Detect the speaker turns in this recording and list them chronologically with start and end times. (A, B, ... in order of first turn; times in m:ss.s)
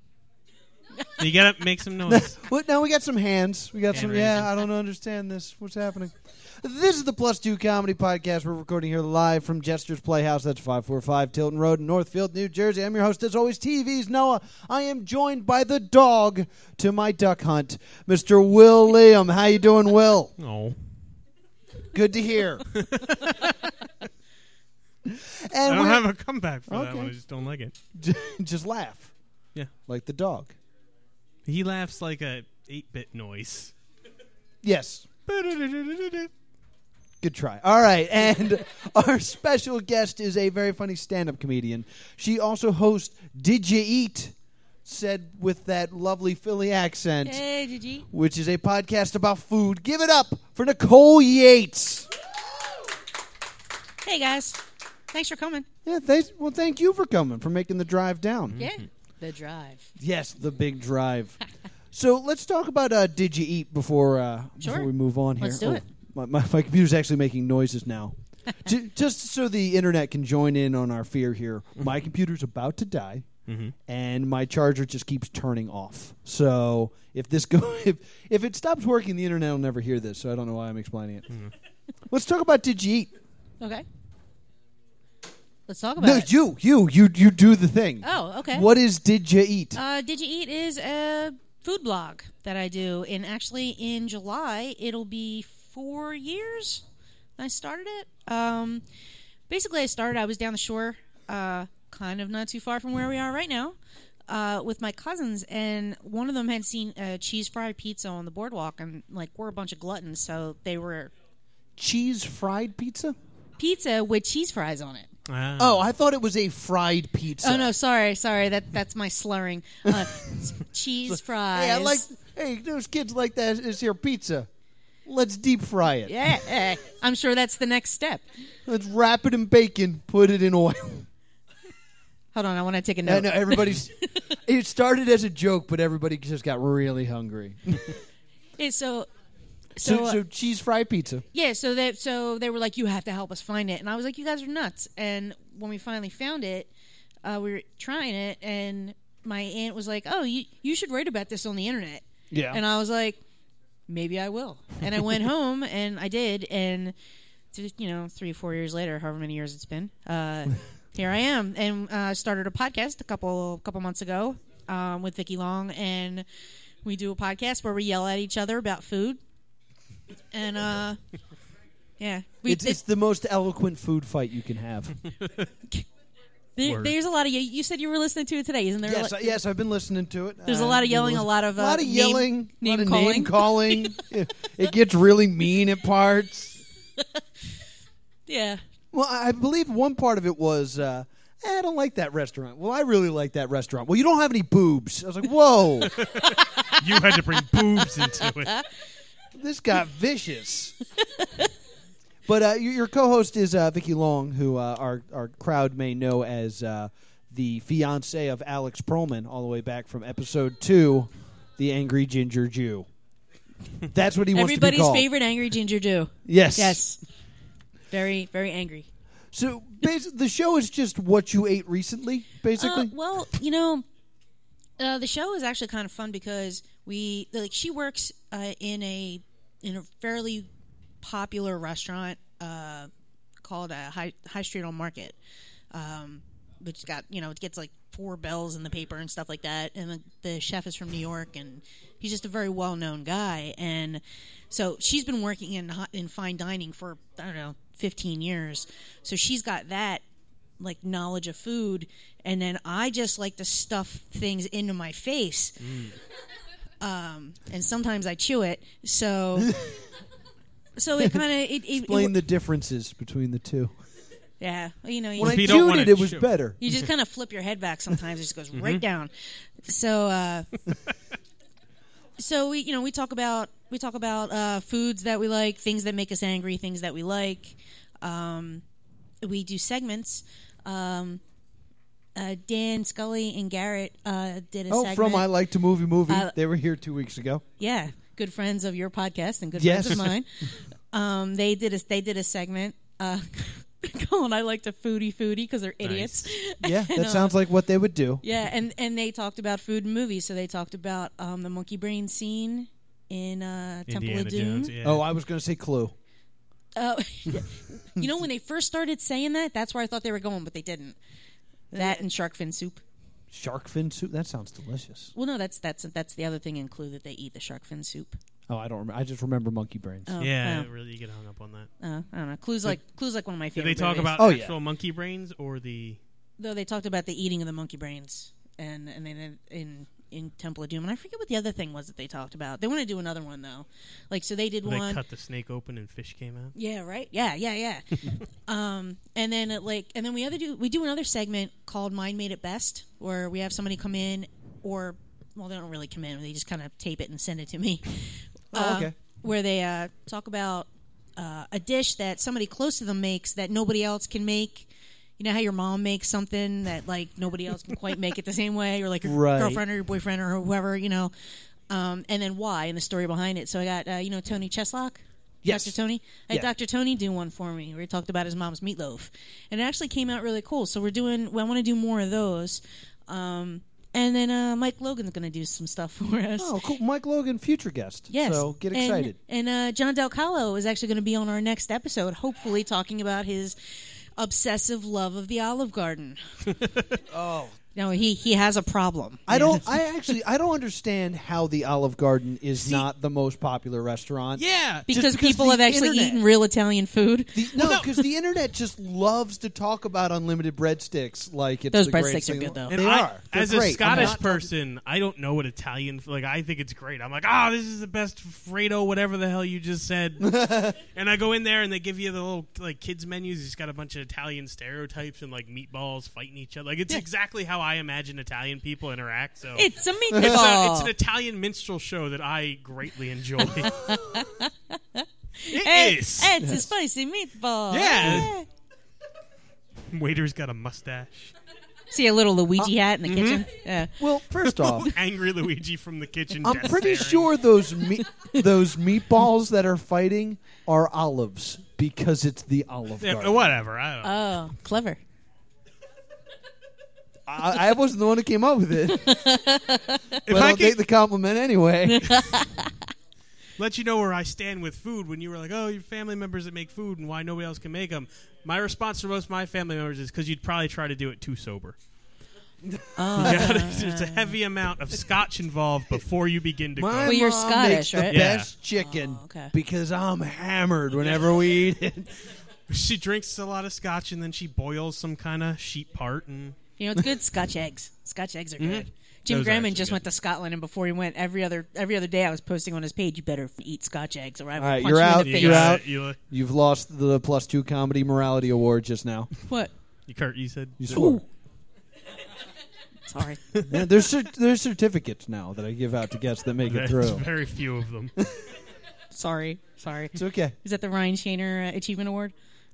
0:01.2-0:02.4 A
0:02.1-0:20.3 B
0:03.9-0:04.5 A
0:20.4-0:20.8 A
0:21.9-0:22.7 B
0:22.7-0:23.6 A
0:25.1-0:26.1 B
0:25.6-0:27.8 A
0:26.7-0:27.1 B
0:28.0-0:29.1 B
0:29.9-0:30.6 B
0:31.5-0:33.7 A
0:34.6-0:35.2 B
0:35.3-0:36.3 A
0:37.2-0:44.3 B
0:44.8-0:47.4 B
0:47.2-0:48.1 C
0:48.1-0:52.1 B
0:54.0-0:54.6 C
0:55.1-0:55.7 C
0:55.8-0:58.6 B
0:58.6-0:59.9 C
1:00.0-1:01.4 B
1:01.9-1:13.3 B
1:04.6-1:04.9 C
1:05.4-1:05.8 C
1:13.5-1:13.7 A
1:13.9-1:21.3 B
1:22.1-1:23.1 B
1:25.7-1:26.3 C
1:26.0-1:29.8 B
1:28.0-1:28.7 C
1:29.8-1:36.8 C
1:37.4-1:38.8 C
1:39.5-1:43.8 C
1:44.3-1:51.1 C
1:51.8-1:53.2 B
1:53.6-1:55.1 C
1:55.3-1:55.8 A
1:55.6-1:57.7 B
1:57.4-2:02.0 C
2:01.1-2:04.5 B
2:05.1-2:06.4 B
2:06.1-2:08.3 C
2:08.7-2:11.1 B
2:12.3-2:13.8 C
2:13.0-2:18.0 B
2:18.6-2:19.1 C
2:19.8-2:20.2 C
2:19.8-2:21.2 B
2:21.3-2:26.7 C
2:27.2-2:33.2 C
2:32.3-2:32.6 B
2:33.9-2:36.9 C
2:37.5-2:46.2 C
2:46.8-2:49.2 C
2:50.3-2:51.0 C
2:52.0-2:52.8 C
2:52.4-2:55.0 B
2:56.6-2:59.4 C
2:56.6-2:56.9 A
2:58.8-3:06.6 B
3:00.5-3:04.0 C
3:08.3-3:08.6 C
3:08.9-3:16.0 B
3:16.0-3:18.6 A
3:16.3-3:16.8 C
3:19.4-3:20.8 B
3:21.2-3:21.5 C
3:22.3-3:32.9 B
3:33.9-3:35.1 B
3:34.3-3:37.0 C
3:36.3-3:36.8 B
3:37.9-3:38.9 C
3:39.3-3:42.9 B
3:42.6-3:43.8 C
3:44.8-3:50.5 C
3:51.0-3:52.9 C
3:53.4-3:55.2 C
3:55.7-4:10.0 C
4:10.6-4:15.6 C
4:15.6-4:15.9 A
4:16.8-4:19.5 C
4:19.4-4:19.9 B
4:20.8-4:22.2 C
4:21.0-4:23.8 B
4:24.4-4:25.7 C
4:25.2-4:26.3 A
4:25.2-4:26.6 B
4:26.6-4:30.5 C
4:28.5-4:28.8 A
4:32.2-4:38.6 C
4:39.2-4:41.2 C
4:42.2-4:45.3 C
4:44.7-4:47.4 B
4:46.1-4:46.4 C
4:47.6-4:57.4 C
4:49.6-4:50.2 B
4:55.8-4:56.3 A
4:56.6-4:58.2 B
4:58.2-5:04.7 C
5:03.9-5:05.1 A
5:04.8-5:06.0 B
5:06.8-5:11.0 C
5:11.7-5:12.0 B
5:11.7-5:12.8 C
5:13.3-5:15.1 B
5:15.2-5:18.2 C
5:18.5-5:20.2 B
5:20.1-5:20.7 C
5:20.2-5:21.7 A
5:21.8-5:24.2 C
5:23.6-5:26.0 A
5:24.2-5:24.6 B
5:26.4-5:35.0 C
5:34.6-5:36.6 A
5:36.6-5:54.7 C
5:48.5-5:49.0 B
5:55.2-6:01.1 C
5:59.0-5:59.6 B
6:01.7-6:16.6 C
6:05.4-6:05.8 B
6:16.4-6:19.2 B
6:18.1-6:26.2 C
6:27.1-6:27.6 B
6:27.8-6:29.8 C
6:29.3-6:36.2 B
6:32.6-6:32.9 A
6:34.4-6:34.9 A
6:34.9-6:37.8 C
6:37.4-6:44.5 B
6:37.6-6:37.9 A
6:41.7-6:42.8 C
6:42.7-7:03.8 A
6:43.8-6:44.2 C
6:50.2-6:50.8 B
6:59.6-7:00.9 C
7:03.4-7:08.5 C
7:05.5-7:06.4 A
7:06.4-7:06.7 B
7:07.7-7:08.3 A
7:08.0-7:08.3 B
7:09.9-7:11.3 A
7:11.9-7:14.0 C
7:13.0-7:13.4 A
7:14.0-7:14.9 B
7:14.4-7:17.3 A
7:16.4-7:23.5 B
7:23.0-7:24.4 A
7:24.0-7:25.0 C
7:27.3-7:29.2 B
7:28.9-7:30.2 C
7:30.3-7:30.8 A
7:30.3-7:32.3 B
7:31.9-7:32.8 C
7:33.6-7:41.8 A
7:42.6-7:43.4 B
7:43.0-7:44.4 C
7:43.2-7:47.2 A
7:46.8-7:52.1 B
7:47.0-7:48.3 C
7:48.1-7:48.5 A
7:48.8-7:49.5 C
7:52.7-7:56.6 A
7:56.8-8:05.8 C
7:58.6-8:00.0 A
8:04.6-8:09.3 B
8:05.2-8:06.2 A
8:10.1-8:11.2 A
8:10.8-8:11.2 B
8:10.9-8:11.2 C
8:13.1-8:13.4 C
8:13.7-8:17.3 B
8:16.7-8:18.1 A
8:19.1-8:22.3 C
8:20.2-8:20.6 B